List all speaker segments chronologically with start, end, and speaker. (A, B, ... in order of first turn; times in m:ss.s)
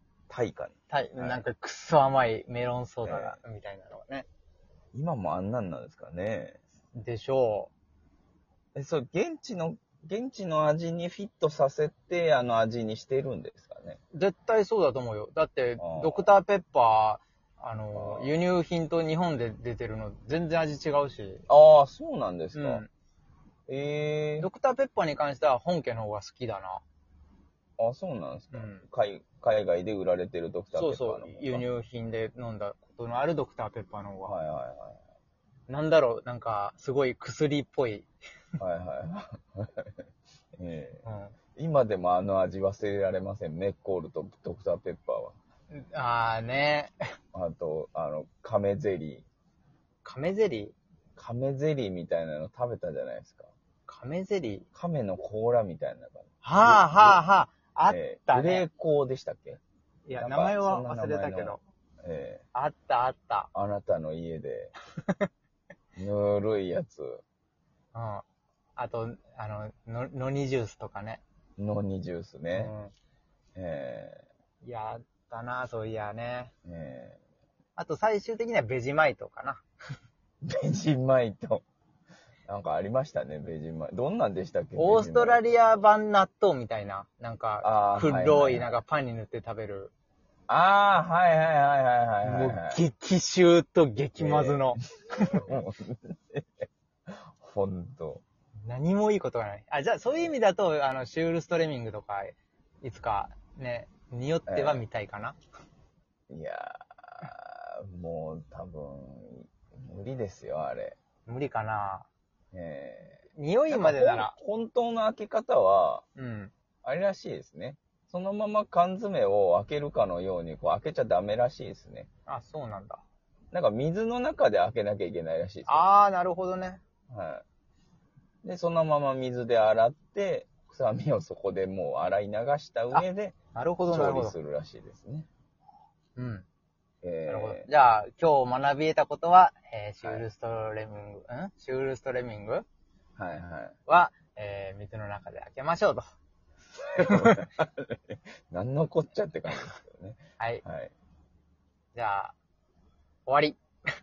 0:00.3-0:01.4 A
0:00.9-0:04.3 B
0:03.0-0:03.4 A
0:04.9-0:06.6 A
0:06.9-0:07.7 B
0:08.7-0:14.0 A
0:14.1-0:21.4 B
0:15.8-0:16.3 A
0:17.9-0:18.3 A
0:21.5-0:22.8 A
0:22.5-0:22.9 B
0:23.7-0:24.5 A
0:24.4-0:26.8 B
0:27.8-0:31.6 A
0:28.5-0:28.8 B
0:30.7-0:34.4 B
0:34.2-0:35.0 A
0:35.7-0:38.1 B
0:38.6-0:39.9 A
0:40.6-0:41.0 A
0:41.0-0:41.3 B
0:41.6-0:45.4 A
0:45.7-0:47.0 B
0:47.3-0:49.2 A
0:50.0-0:50.7 B
0:51.2-0:53.5 A
0:53.9-0:54.6 B
0:54.7-0:57.2 A
0:56.4-0:58.6 B
0:57.9-0:59.6 A
1:00.1-1:01.6 B
1:00.2-1:02.4 A
1:02.5-1:03.5 B
1:03.5-1:04.7 A
1:06.0-1:07.2 A
1:07.9-1:08.2 B
1:08.8-1:11.2 B
1:11.6-1:12.7 A
1:12.5-1:12.9 B
1:13.5-1:14.2 A
1:14.6-1:16.5 B
1:16.6-1:17.2 A
1:17.8-1:19.6 B
1:20.4-1:21.6 A
1:22.5-1:25.4 A
1:24.8-1:29.9 B
1:27.6-1:28.8 A
1:30.5-1:32.8 A
1:32.2-1:35.6 B
1:34.2-1:38.2 A
1:38.7-1:45.4 B
1:44.5-1:44.8 A
1:46.3-1:51.0 A
1:51.3-1:52.1 B
1:52.5-1:56.0 A
1:53.3-1:54.4 B
1:56.2-1:56.5 B
1:56.8-2:02.1 A
2:02.3-2:03.0 B
2:03.5-2:05.9 A
2:05.7-2:06.8 B
2:07.1-2:07.4 A
2:08.4-2:15.3 A
2:12.9-2:14.4 B
2:16.2-2:16.4 B
2:17.0-2:17.7 A
2:17.3-2:22.6 B
2:23.2-2:23.8 A
2:23.9-2:26.1 B
2:26.8-2:30.9 A
2:27.0-2:27.4 B
2:30.4-2:30.6 B
2:31.9-2:32.3 B
2:33.2-2:33.6 B